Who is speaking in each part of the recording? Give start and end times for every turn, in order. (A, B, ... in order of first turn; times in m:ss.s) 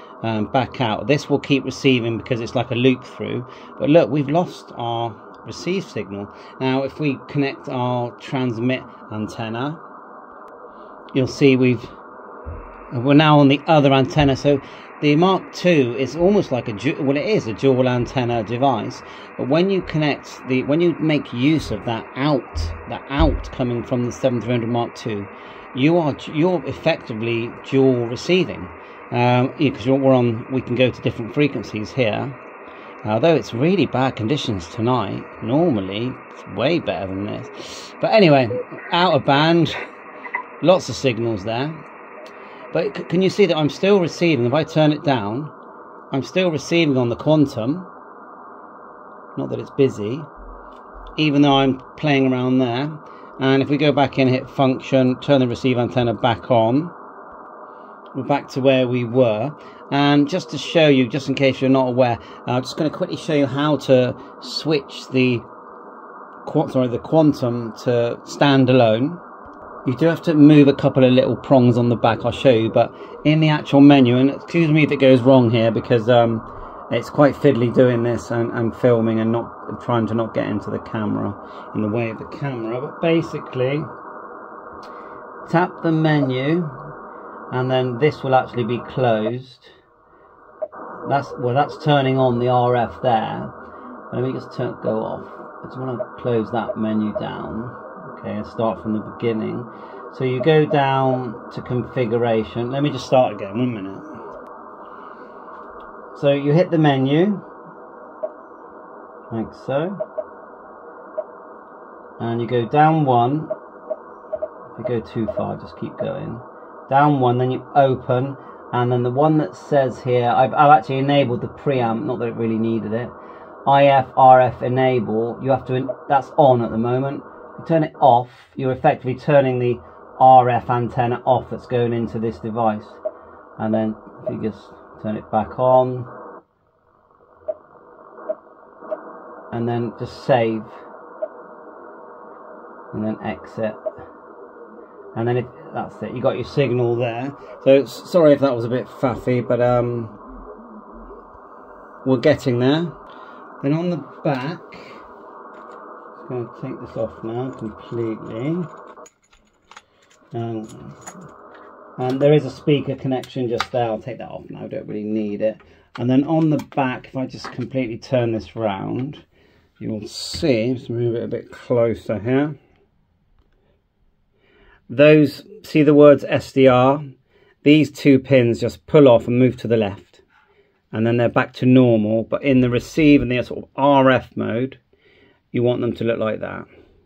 0:00.2-0:09.8 A
0:11.1-0:11.9 A
0:12.9-0:32.4 A
0:33.0-0:39.8 A
0:40.6-0:41.8 A
0:42.7-0:45.5 A
0:46.1-0:47.9 A
0:49.4-0:50.3 A
0:51.2-0:56.9 A
0:58.2-1:05.4 A
1:06.4-1:09.2 A
1:09.8-1:23.9 A
1:25.5-1:26.8 A
1:27.5-1:29.7 A
1:31.1-1:33.5 A
1:34.1-1:44.2 A
1:46.2-1:47.4 A
1:49.3-1:50.0 A
1:52.2-1:53.5 A
1:54.8-2:03.1 A
2:03.6-2:13.0 A
2:13.6-2:16.1 A
2:19.5-2:20.7 A
2:22.9-2:23.8 A
2:25.2-2:30.2 A
2:32.0-2:32.9 A
2:33.6-2:35.0 A
2:36.2-2:38.7 A
2:40.3-2:41.0 A
2:42.0-2:49.2 A
2:49.8-2:52.6 A
2:54.9-2:57.0 A
2:57.6-3:00.2 A
3:00.9-3:04.8 A
3:05.5-3:06.7 A